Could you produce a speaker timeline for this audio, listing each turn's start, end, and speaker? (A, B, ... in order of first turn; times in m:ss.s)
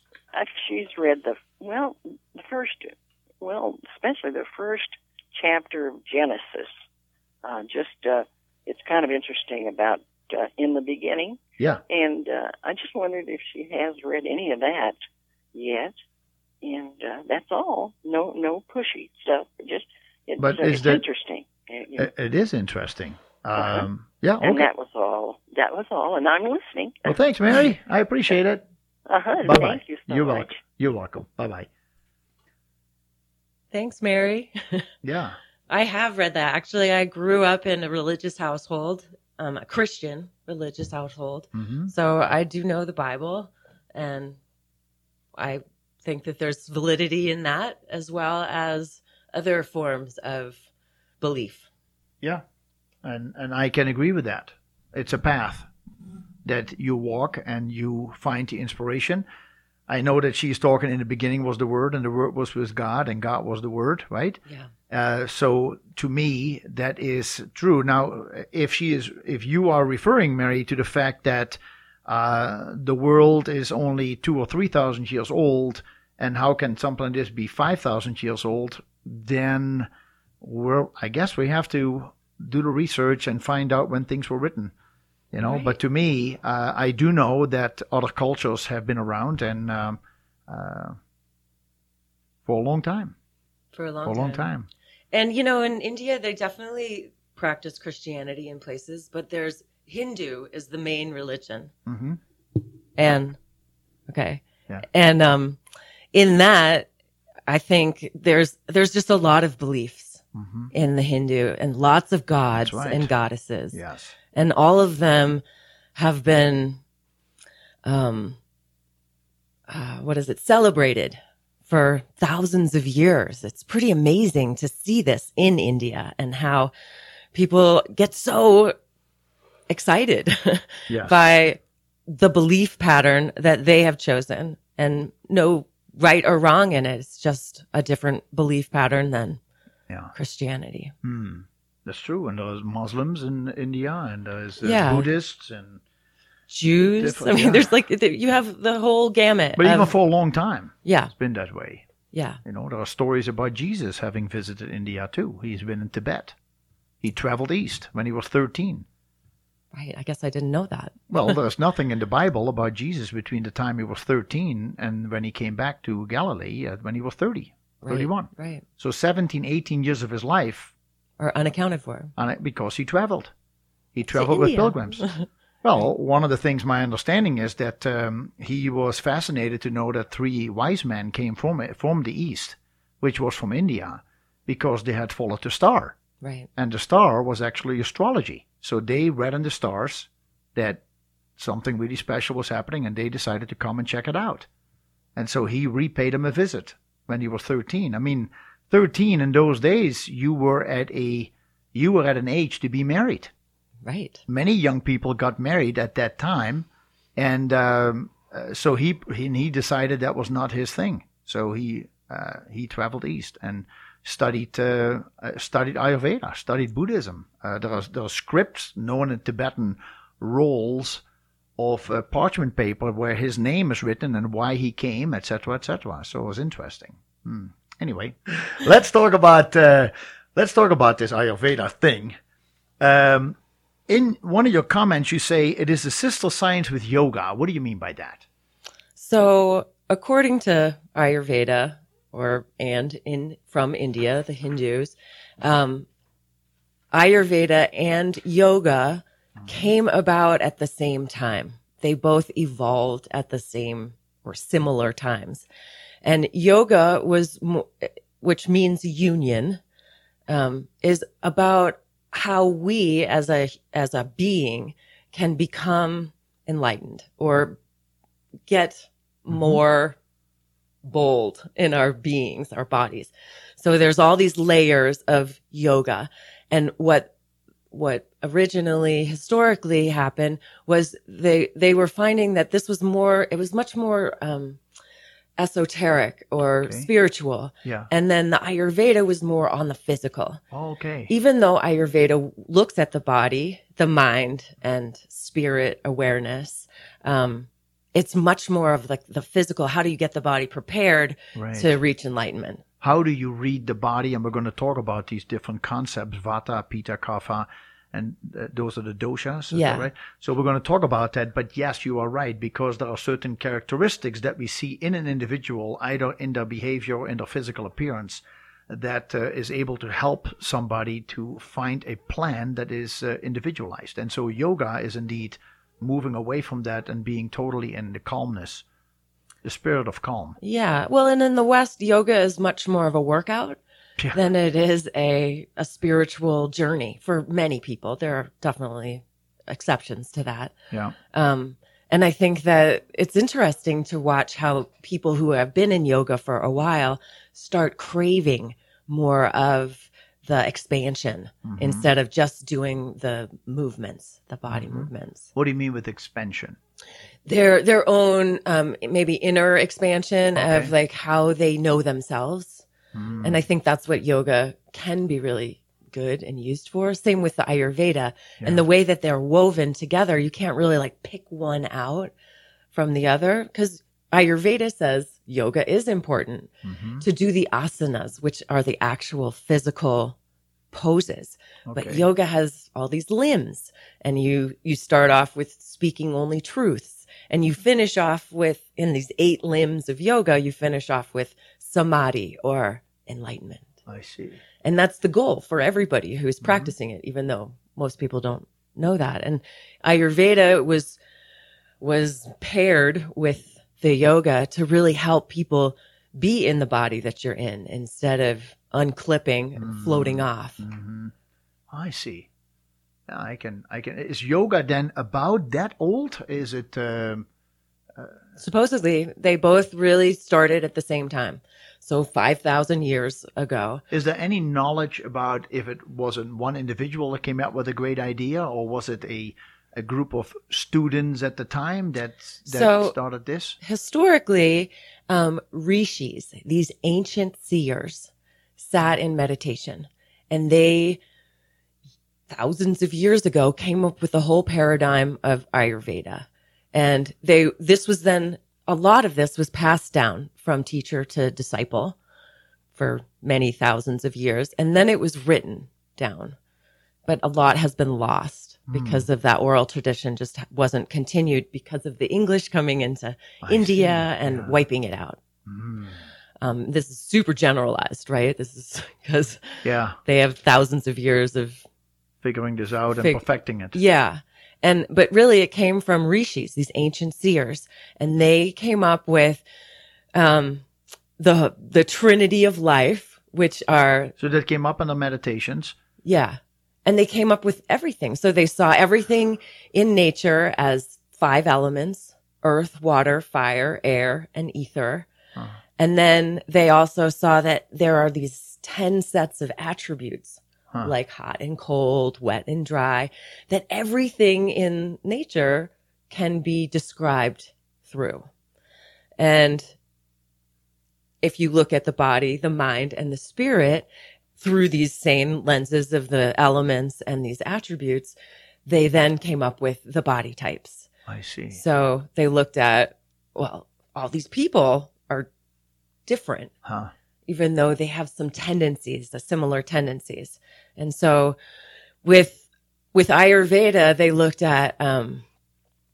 0:00.3-0:06.7 A
0:07.4-0:15.0 A
0:15.5-0:15.9 A
0:16.6-0:22.1 A
0:20.4-0:21.0 B
0:22.0-0:24.7 B
0:23.6-0:23.9 A
0:24.4-0:27.2 A
0:27.1-0:28.6 B
0:29.1-0:30.6 A
0:29.4-0:31.7 B
0:33.7-0:34.9 C
0:35.0-0:35.4 B
0:35.7-0:44.4 C
0:41.6-0:41.9 B
0:45.4-0:50.7 C
0:51.2-0:51.7 C
0:53.0-0:55.7 B
0:56.4-0:59.2 B
0:59.9-1:19.9 B
1:20.4-1:24.7 B
1:25.3-1:31.0 B
1:25.4-1:25.8 C
1:32.4-1:33.1 B
1:33.7-1:34.5 C
1:34.0-1:34.7 B
1:35.1-1:41.7 C
1:41.9-1:42.2 B
1:43.0-1:43.4 C
1:44.1-1:45.6 C
1:46.1-1:46.9 C
1:47.5-1:53.8 C
1:50.4-1:50.7 B
1:52.6-1:53.1 B
1:53.7-1:54.1 B
1:54.4-1:55.4 C
1:56.0-1:56.8 C
1:57.8-1:58.4 C
1:59.7-2:06.7 C
2:07.3-2:08.8 C
2:09.7-2:19.4 C
2:10.9-2:11.2 B
2:20.1-2:21.0 C
2:21.0-2:25.8 B
2:24.6-2:25.1 C
2:26.5-2:29.9 C
2:27.0-2:27.7 B
2:29.6-2:31.8 B
2:30.8-2:31.1 C
2:32.1-2:32.4 C
2:32.4-2:36.4 B
2:37.0-2:38.9 B
2:39.7-2:41.4 C
2:41.1-2:50.7 B
2:47.8-2:48.6 C
2:51.2-2:52.1 C
2:52.2-2:53.3 B
2:54.0-2:55.1 B
2:54.1-2:55.3 C
2:55.6-3:06.0 B
3:06.2-3:06.5 C
3:06.6-3:10.8 B
3:11.4-3:14.5 B
3:15.2-3:23.3 B
3:23.8-3:24.2 C
3:24.3-3:41.0 B
3:41.6-3:52.2 B
3:52.8-3:53.4 B
3:53.9-3:58.2 B
3:59.0-4:05.9 C
4:06.9-4:15.5 C
4:09.4-4:09.7 B
4:16.0-4:19.6 C
4:20.3-4:27.6 C
4:28.5-4:30.0 C
4:29.3-4:29.6 B
4:30.8-4:37.1 C
4:37.7-4:44.6 C
4:45.4-4:50.4 C
4:47.6-4:47.9 B
4:50.5-4:51.1 B
4:51.1-5:02.6 C
5:01.4-5:01.7 B
5:02.8-5:28.6 B
5:09.5-5:09.9 C
5:29.4-5:30.4 B
5:30.4-5:33.6 C
5:34.1-5:40.5 C
5:41.1-5:55.3 C
5:51.4-5:51.9 B
5:54.5-5:56.6 B
5:57.3-6:02.6 C
6:00.4-6:00.7 B
6:02.9-6:03.4 B
6:03.2-6:12.1 C
6:12.7-6:20.2 C
6:16.6-6:17.0 B
6:20.7-6:33.8 C
6:21.7-6:22.0 B
6:33.9-6:34.4 B
6:34.6-6:41.0 C
6:36.4-6:36.7 B
6:41.8-6:50.6 C
6:49.6-6:51.1 B
6:51.7-6:52.3 B
6:53.1-6:57.3 B
6:58.4-7:03.8 C
7:03.9-7:13.6 B
7:12.5-7:13.0 C
7:13.6-7:21.0 C
7:22.3-7:32.0 C
7:32.8-7:36.4 C
7:37.1-7:45.2 C
7:38.7-7:39.1 B
7:43.4-7:44.6 B
7:45.5-7:46.0 B
7:46.4-7:51.6 C
7:49.6-7:50.0 B
7:52.2-7:53.8 B
7:53.0-7:53.2 C
7:53.7-7:59.4 C
8:00.1-8:00.6 C
8:01.2-8:04.2 C
8:04.2-8:05.8 B
8:06.0-8:15.1 C
8:15.8-8:28.3 C
8:29.2-8:29.7 C
8:31.2-8:38.2 C
8:38.7-8:40.9 C
8:41.1-8:41.6 B
8:41.5-8:45.3 C
8:46.1-8:46.5 C
8:46.6-8:46.9 B
8:47.3-8:51.4 C
8:52.0-8:55.2 C